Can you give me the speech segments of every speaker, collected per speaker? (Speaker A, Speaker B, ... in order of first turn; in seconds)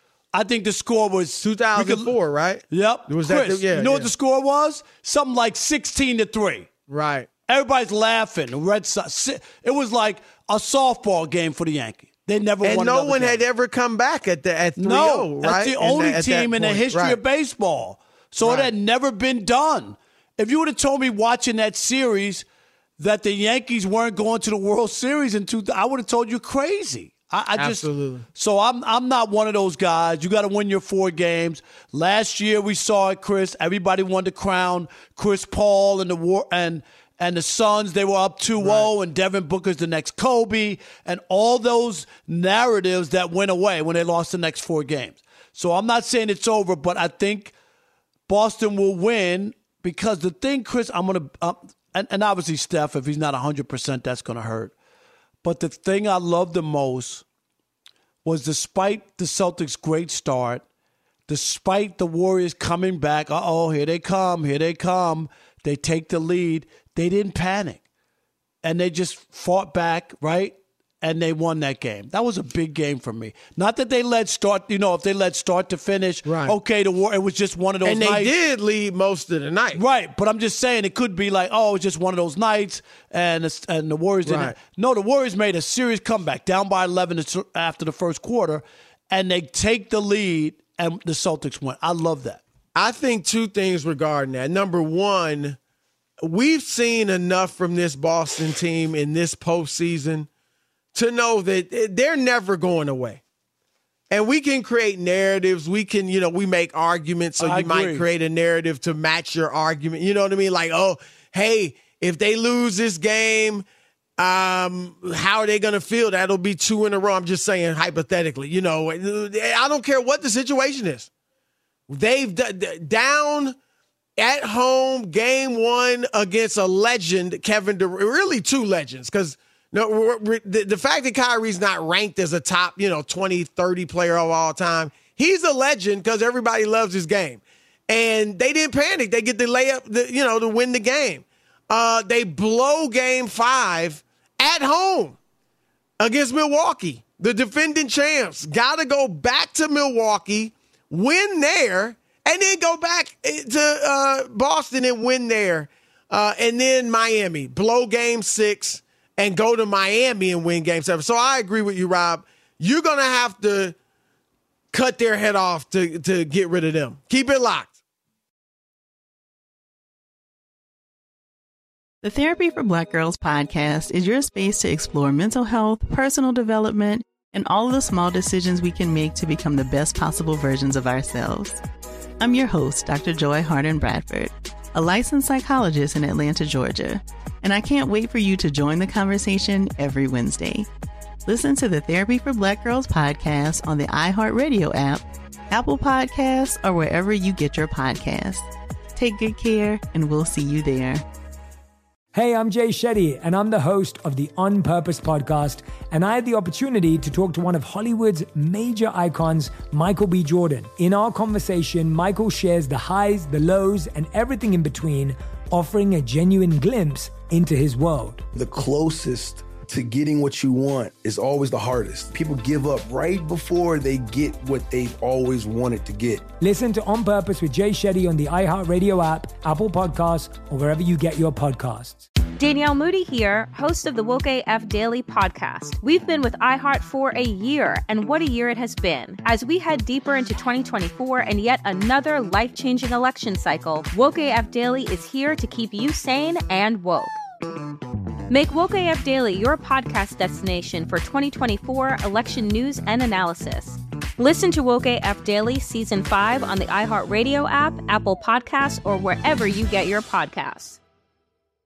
Speaker A: 0.3-2.1, 2.7-6.7, 7.5-13.4, 14.8-22.4, 23.0-47.5, 48.3-54.7, 55.4-57.2, 58.2-60.6, 61.3-67.8, 68.6-78.3, 79.7-92.4, 107.4-108.0
Speaker B: 1.4-4.1, 6.9-7.3, 12.6-17.2, 18.4-18.7, 27.6-28.3, 38.6-38.9, 76.3-76.5, 77.8-79.8, 84.2-84.5, 92.8-95.6, 96.2-100.3, 100.9-103.2, 104.1-113.6, 114.2-121.1, 121.9-123.5, 124.2-145.2, 146.0-163.8, 164.7-167.7
Speaker C: 172.0-181.6, 182.2-190.7, 191.3-201.0
Speaker D: 202.1-218.3, 226.4-232.1
Speaker E: 218.3-226.3
Speaker F: 232.4-247.2, 248.3-260.8